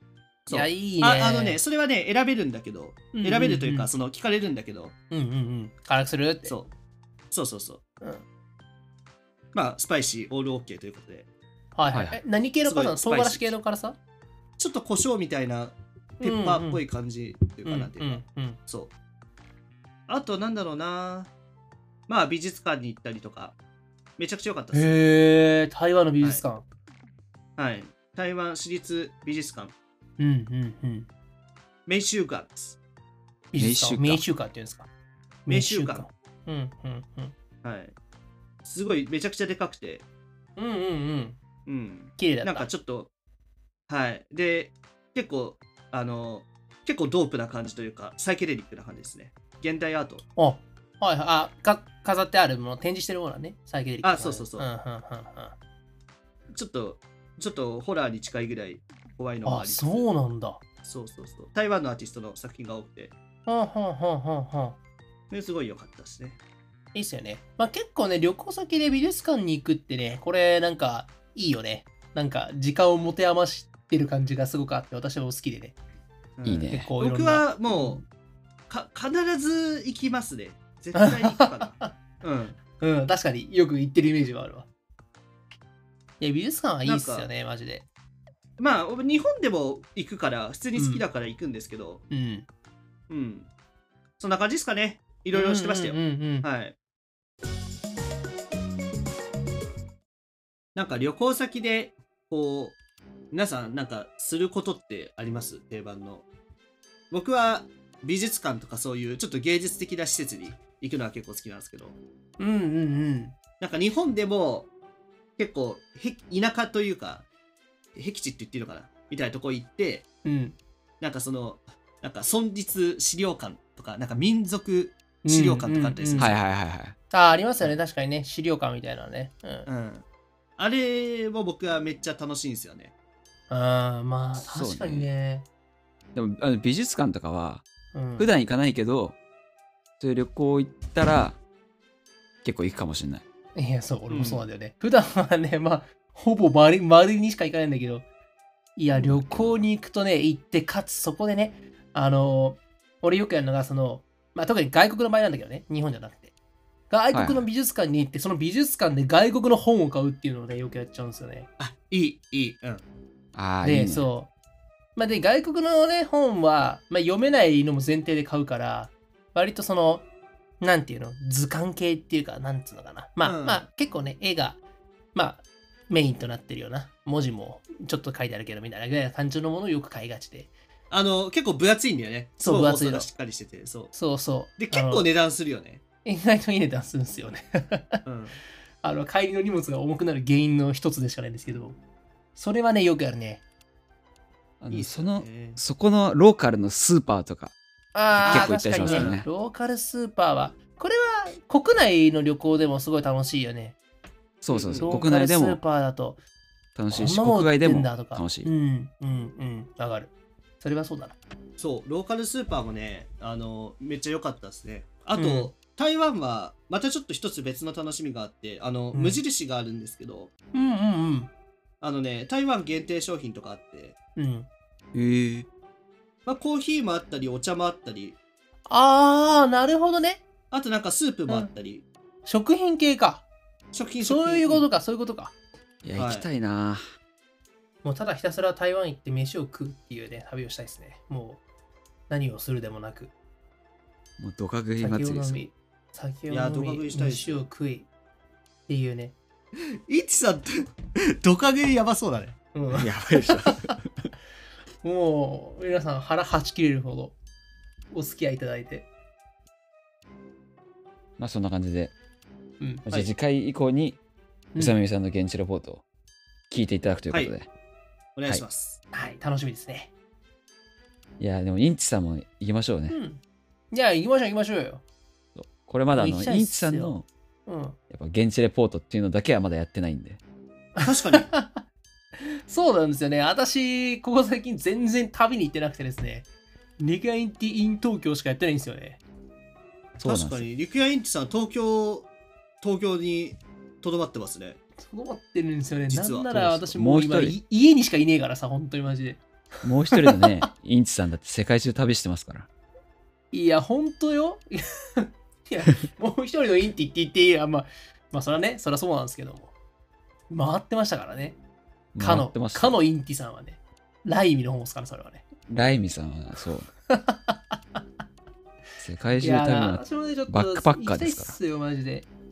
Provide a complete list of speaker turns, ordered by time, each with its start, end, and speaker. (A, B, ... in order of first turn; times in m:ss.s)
0:00.4-0:04.9 A
0:00.5-0:01.6 B
0:03.1-0:03.9 B
0:05.1-0:06.5 B
0:06.4-0:06.7 A
0:07.3-0:07.8 A
0:09.5-0:11.3 A
0:11.7-0:14.0 B
0:11.9-0:12.2 C
0:12.6-0:13.5 A
0:14.6-0:18.9 A
0:16.2-0:16.8 B
0:17.6-0:18.6 B
0:20.1-0:21.3 A
0:22.1-0:23.6 A
0:24.2-0:25.0 A
0:24.7-0:26.6 B
0:27.6-0:29.7 A
0:30.2-0:31.1 B
0:31.9-0:32.8 A
0:33.5-0:34.9 B
0:33.6-0:34.2 C
0:35.4-0:37.3 B
0:35.5-0:36.1 A
0:37.6-0:37.9 A
0:38.6-0:40.0 A
0:40.6-0:41.4 B
0:41.6-0:43.1 A
0:42.2-0:42.7 B
0:43.9-0:50.2 A
0:50.4-0:55.5 B
0:54.0-0:54.7 A
0:56.5-1:00.1 A
0:59.4-1:00.6 B
1:00.8-1:03.1 A
1:03.4-1:04.8 B
1:05.3-1:06.4 A
1:06.9-1:15.8 B
1:16.4-1:18.0 A
1:16.5-1:16.9 C
1:16.7-1:18.0 B
1:18.7-1:22.6 A
1:20.9-1:21.9 B
1:22.8-1:24.7 B
1:26.2-1:27.8 B
1:26.8-1:27.3 A
1:28.6-1:32.0 A
1:30.8-1:31.0 B
1:32.1-1:32.4 B
1:33.1-1:33.5 A
1:34.2-1:36.7 A
1:35.3-1:36.5 B
1:40.8-1:42.8 A
1:43.3-1:46.2 A
1:47.1-1:52.0 A
1:52.4-1:53.3 B
1:53.6-1:54.7 A
1:55.4-1:57.3 A
1:58.0-2:00.0 A
2:00.2-2:00.6 B
2:01.0-2:06.3 A
2:05.2-2:06.3 B
2:06.2-2:07.0 C
2:07.1-2:09.7 B
2:09.7-2:10.0 A
2:10.6-2:12.9 A
2:13.5-2:15.5 B
2:14.5-2:15.1 C
2:16.1-2:17.6 C
2:17.9-2:18.3 B
2:18.2-2:19.2 C
2:20.0-2:21.4 C
2:22.4-2:23.2 C
2:23.5-2:28.1 B
2:24.1-2:24.4 A
2:28.8-2:36.3 B
2:29.0-2:29.6 C
2:36.9-2:41.5 B
2:37.1-2:37.4 C
2:41.6-2:42.8 A
2:43.3-2:44.1 C
2:43.6-2:44.3 B
2:45.0-2:50.0 B
2:50.6-2:54.6 B
2:53.2-2:53.6 A
2:55.1-3:00.5 B
3:00.9-3:03.9 A
3:02.4-3:03.1 B
3:03.9-3:05.1 B
3:04.6-3:05.8 A
3:06.0-3:08.0 B
3:08.0-3:08.4 A
3:08.8-3:11.8 B
3:12.3-3:13.4 B
3:14.6-3:17.5 C
3:14.7-3:15.6 A
3:17.9-3:23.8 B
3:18.2-3:19.2 C
3:18.2-3:19.2 A
3:24.4-3:25.6 C
3:24.5-3:25.1 A
3:24.7-3:26.2 B
3:26.8-3:28.5 C
3:26.9-3:31.2 B
3:31.6-3:40.3 A
3:35.2-3:35.5 B
3:38.9-3:39.2 B
3:40.5-3:41.3 B
3:41.8-3:43.9 A
3:44.2-3:44.5 B
3:44.9-3:45.4 C
3:46.2-3:48.2 A
3:48.7-3:50.2 B
3:50.5-3:51.8 A
3:52.2-3:53.2 B
3:53.7-3:54.6 A
3:54.0-3:55.3 B
3:55.8-3:56.8 C
3:56.0-3:56.3 A
3:57.8-4:01.4 B
4:02.1-4:03.1 B
4:04.2-4:05.4 C
4:04.8-4:07.9 B
4:06.3-4:07.4 A
4:08.7-4:09.2 B
4:09.9-4:10.7 A
4:11.2-4:12.4 A
4:12.5-4:13.7 B
4:12.8-4:13.7 C
4:14.8-4:17.2 B
4:17.9-4:18.9 B
4:21.2-4:21.9 C
4:22.9-4:24.0 C
4:24.5-4:24.8 B
4:24.6-4:25.8 C
4:26.5-4:27.5 C
4:28.2-4:28.8 A
4:28.9-4:29.9 B
4:31.2-4:33.0 C
4:32.9-4:34.8 B
4:35.3-4:37.0 C
4:35.9-4:37.8 B
4:37.9-4:40.2 C
4:40.8-4:41.3 A
4:40.8-4:41.6 B
4:42.4-4:46.3 B
4:46.8-4:49.0 B
4:50.0-4:52.1 A
4:52.6-4:54.6 A
4:54.8-4:59.2 B
4:55.9-4:56.5 A
4:56.6-4:57.4 C
4:59.6-5:02.5 C
4:59.9-5:00.2 B
5:03.3-5:09.5 B
5:10.3-5:11.4 B
5:11.9-5:12.8 C
5:12.0-5:15.2 B
5:15.5-5:16.6 C
5:16.9-5:17.6 B
5:18.8-5:21.4 C
5:19.2-5:22.1 B